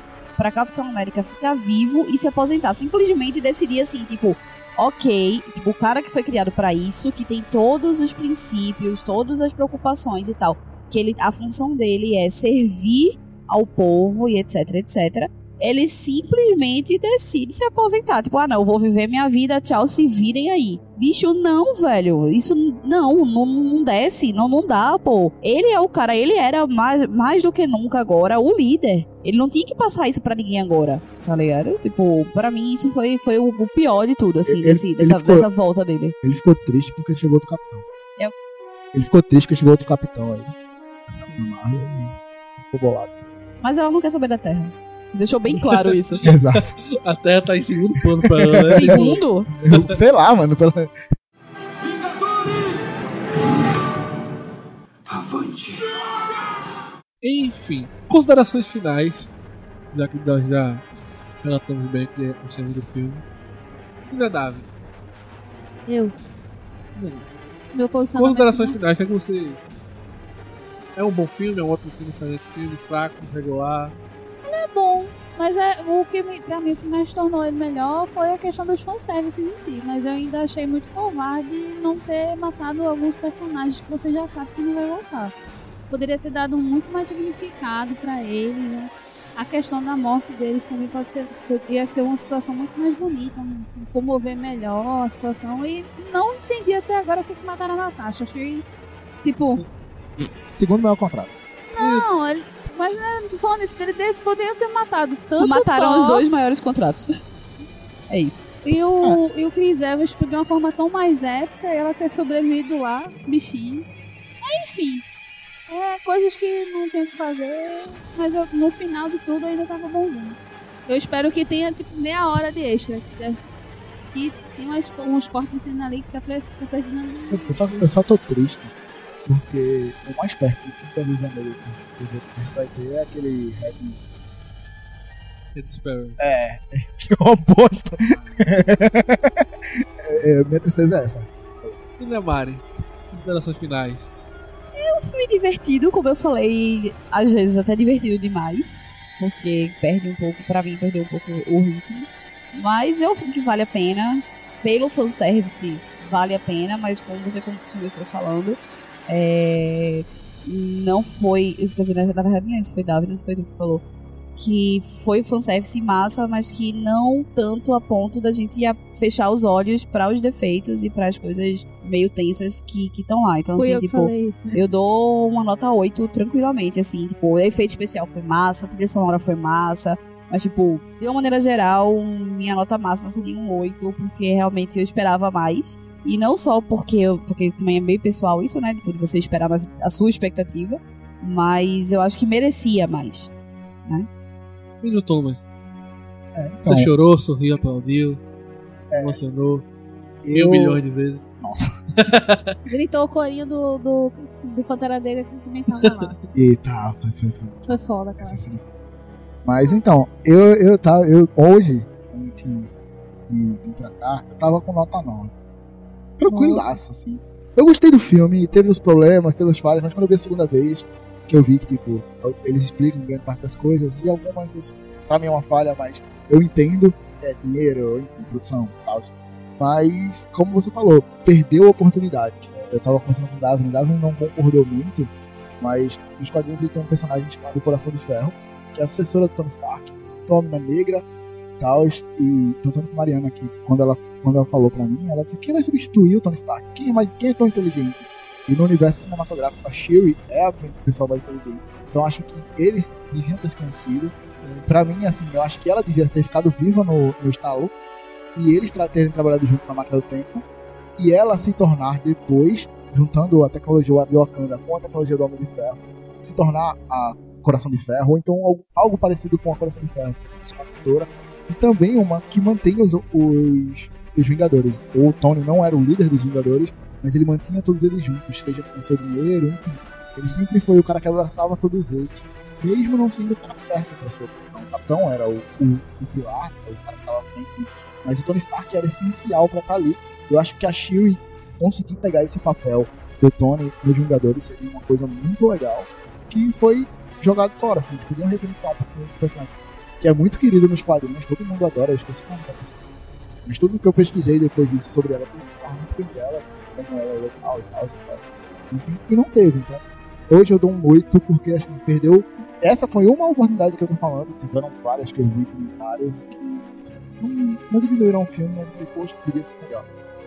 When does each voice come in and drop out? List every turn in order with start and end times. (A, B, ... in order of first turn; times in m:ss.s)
0:00.4-0:36.2 A
0:34.5-0:35.5 B
0:36.2-0:37.9 B
0:38.9-0:40.6 B
0:41.1-0:43.2 B
0:43.6-0:46.2 A
0:46.2-0:46.7 B
0:46.2-0:49.9 C
0:48.0-0:51.0 B
0:48.7-0:49.5 A
0:55.2-0:55.6 B
0:57.2-0:59.3 C
0:59.9-1:00.8 C
1:01.4-1:03.2 C
1:04.0-1:04.7 C
1:05.9-1:06.1 D
1:07.0-1:07.3 C
1:07.7-1:08.8 D
1:08.2-1:09.6 C
1:11.0-1:14.0 C
1:14.4-1:25.3 D
1:25.9-1:38.6 D
1:39.2-1:39.6 D
1:40.4-1:41.3 B
1:41.7-1:46.2 D
1:41.8-1:42.0 C
1:45.4-1:47.2 A
1:48.1-1:48.5 A
1:48.6-1:53.9 D
1:54.4-1:55.0 D
1:55.7-2:03.4 D
2:04.1-2:07.9 D
2:07.3-2:08.7 B
2:09.3-2:14.0 B
2:15.6-2:16.2 C
2:16.2-2:19.5 B
2:20.0-2:21.8 B
2:22.0-2:24.1 C
2:24.8-2:43.8 A
2:44.4-3:13.3 A
2:53.6-2:54.6 D
3:14.8-3:15.4 C
3:16.4-3:16.9 B
3:16.6-3:18.2 C
3:18.9-3:19.2 B
3:19.0-3:19.7 C
3:20.2-3:20.8 B
3:20.3-3:21.2 C
3:21.4-3:21.7 B
3:22.0-3:22.6 C
3:22.7-3:26.2 D
3:25.7-3:26.2 C
3:26.3-3:28.6 B
3:27.7-3:28.4 D
3:29.4-3:32.7 B
3:33.3-3:35.3 B
3:36.2-4:01.0 B
3:36.3-3:36.8 D
4:01.6-4:14.2 B
4:14.4-4:14.8 C
4:14.7-4:17.7 B
4:18.4-4:20.4 B
4:21.0-5:02.8 B
5:03.4-5:16.7 B
5:17.2-5:19.9 B